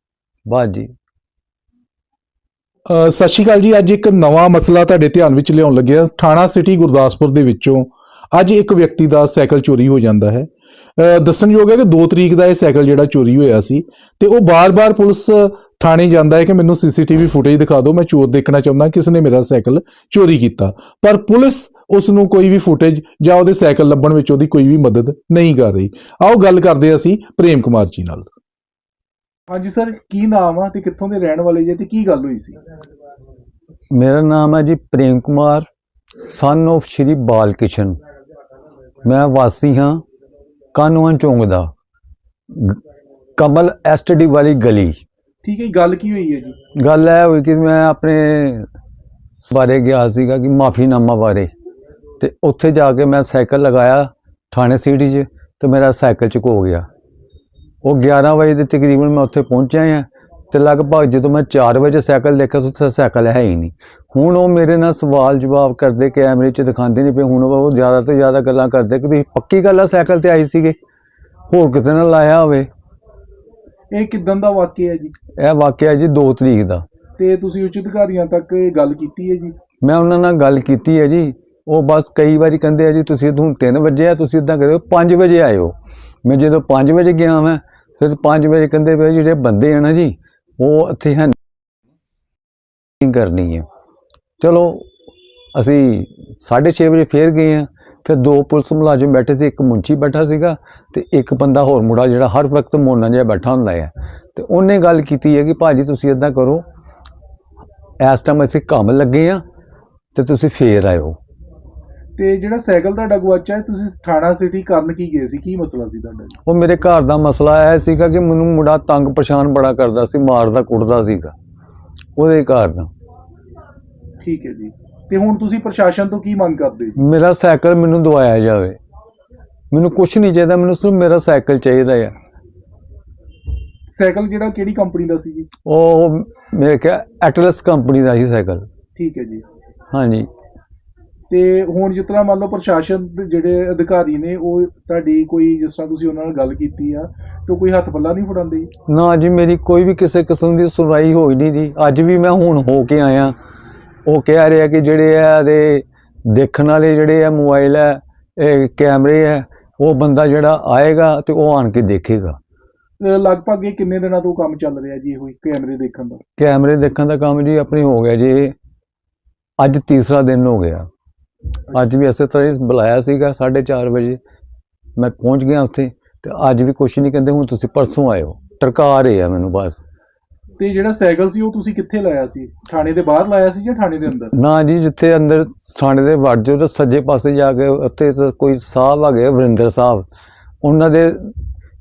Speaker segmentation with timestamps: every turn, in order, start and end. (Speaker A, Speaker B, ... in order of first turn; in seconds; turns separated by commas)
Speaker A: 0.5-0.9, Speaker B: 2.9-28.3, Speaker B: 29.5-32.6, Speaker A: 33.9-38.0, Speaker A: 39.0-40.0, Speaker A: 40.7-41.7, Speaker A: 42.5-42.8, Speaker A: 43.4-45.0, Speaker B: 45.4-46.6, Speaker A: 46.7-48.7, Speaker A: 49.4-51.5, Speaker A: 52.2-56.9, Speaker A: 57.8-70.8, Speaker A: 71.5-72.7, Speaker B: 73.9-75.1, Speaker A: 75.4-76.8, Speaker B: 77.2-79.5, Speaker A: 79.8-91.4, Speaker A: 93.0-93.7, Speaker A: 94.4-94.9, Speaker A: 95.5-106.6, Speaker A: 108.0-109.4, Speaker A: 110.2-111.2, Speaker B: 112.2-116.4, Speaker A: 116.5-121.3, Speaker A: 122.2-122.9, Speaker B: 124.2-127.0, Speaker A: 127.0-128.8, Speaker A: 129.7-132.1, Speaker B: 133.9-135.5, Speaker A: 135.7-138.7, Speaker B: 139.0-139.4, Speaker A: 139.9-140.3, Speaker B: 141.3-148.7, Speaker A: 148.9-153.3, Speaker A: 154.1-162.4, Speaker B: 163.0-166.2, Speaker A: 166.4-168.6, Speaker A: 169.6-170.9, Speaker A: 171.7-174.2, Speaker A: 175.0-179.8, Speaker B: 180.6-184.3, Speaker A: 184.3-190.1, Speaker A: 190.6-191.3